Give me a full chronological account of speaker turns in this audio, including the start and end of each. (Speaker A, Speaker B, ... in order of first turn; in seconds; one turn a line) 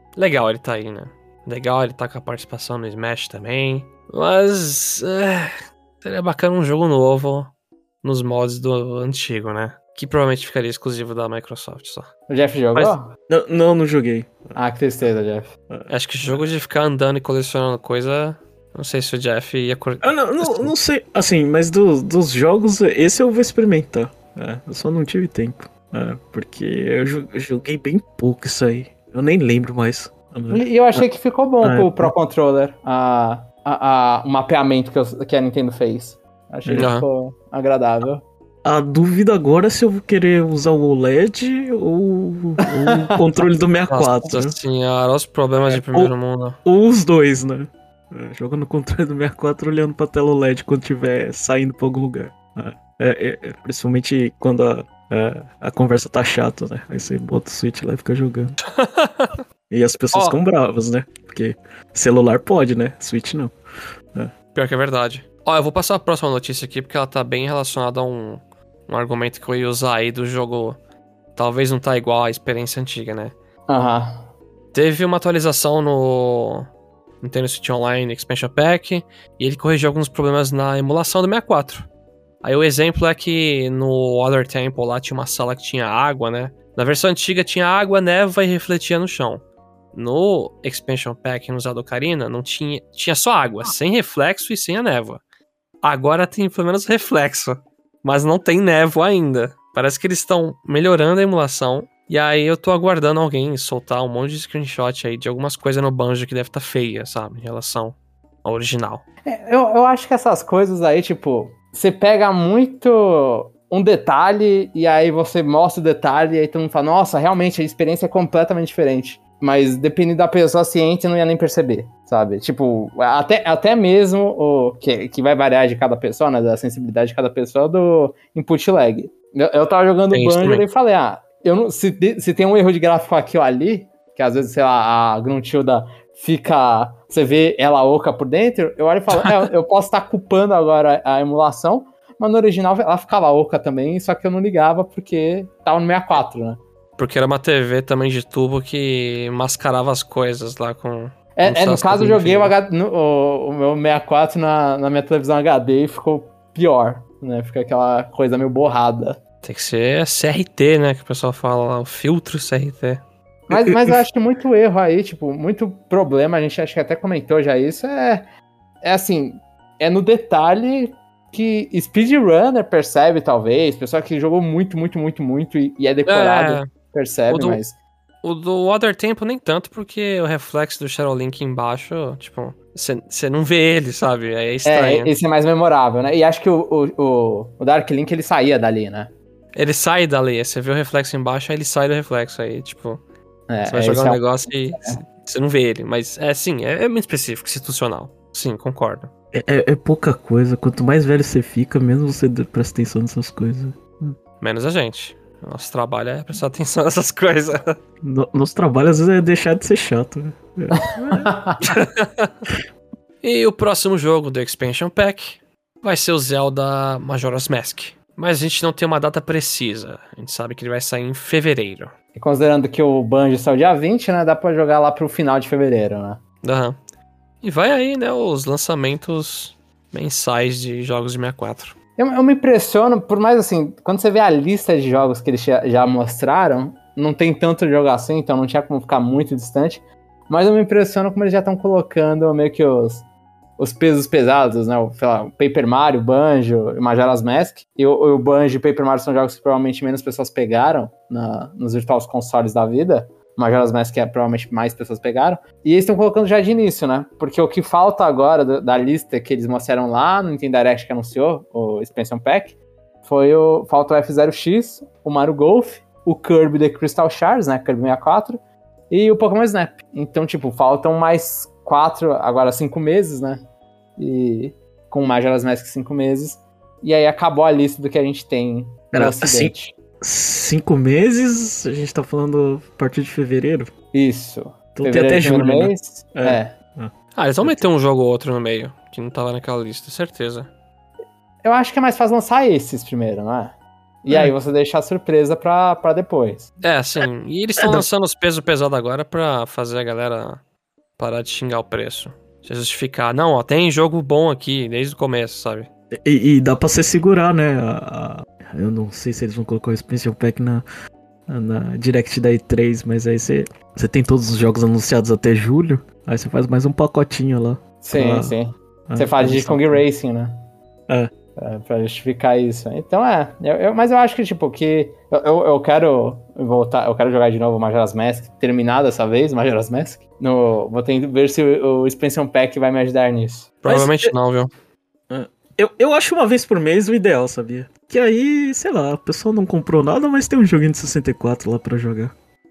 Speaker A: 0.2-12.1
Speaker B: 12.3-13.1
Speaker C: 13.3-14.6
Speaker B: 14.6-15.5
Speaker C: 15.7-16.4
Speaker A: 15.9-20.7
Speaker C: 20.0-30.6
Speaker B: 30.5-38.2
Speaker C: 31.6-32.1
Speaker A: 36.8-37.1
Speaker C: 38.6-44.6
Speaker A: 43.9-46.6
Speaker C: 45.7-46.1
Speaker C: 46.6-58.6
Speaker A: 58.8-59.3
Speaker C: 59.7-63.5
Speaker A: 64.5-70.8
Speaker A: 71.4-73.3
Speaker B: 73.7-74.3
Speaker A: 74.7-76.7
Speaker A: 77.2-81.9
Speaker A: 82.4-95.2
Speaker A: 95.8-109.0
Speaker B: 109.3-146.6
Speaker A: 130.1-130.7
Speaker A: 147.0-152.5
Speaker B: 151.4-159.2
Speaker A: 159.4-163.0
Speaker B: 163.5-168.2
Speaker C: 163.5-164.0
Speaker B: 168.8-177.8
Speaker A: 176.1-176.7
Speaker A: 177.3-177.6
Speaker A: 178.2-185.1
Speaker B: 184.7-189.1
Speaker A: 189.6-193.0
Speaker B: 193.5-195.0
Speaker A: 193.7-199.1
Speaker C: 199.3-204.2
Speaker A: 204.4-207.8
Speaker C: 208.0-211.3
Speaker B: 211.1-211.6
Speaker A: 211.7-212.3
Speaker A: 213.2-221.9
Speaker B: 222.2-226.2
Speaker A: 226.4-226.8
Speaker A: 227.4-231.8
Speaker B: 232.0-243.1
Speaker B: 243.6-268.4
Speaker B: 268.9-273.4
Speaker B: 274.0-279.8
Speaker C: 278.9-283.7
Speaker B: 283.9-286.5
Speaker C: 284.8-287.6
Speaker A: 287.2-290.5
Speaker B: 291.4-296.5
Speaker A: 296.6-300.4
Speaker C: 297.6-297.9
Speaker A: 301.0-305.7
Speaker C: 305.9-310.6
Speaker C: 311.3-318.4
Speaker B: 317.8-320.4
Speaker C: 318.9-319.8
Speaker B: 321.4-333.5
Speaker A: 333.6-334.5
Speaker C: 333.6-334.1
Speaker C: 335.1-342.1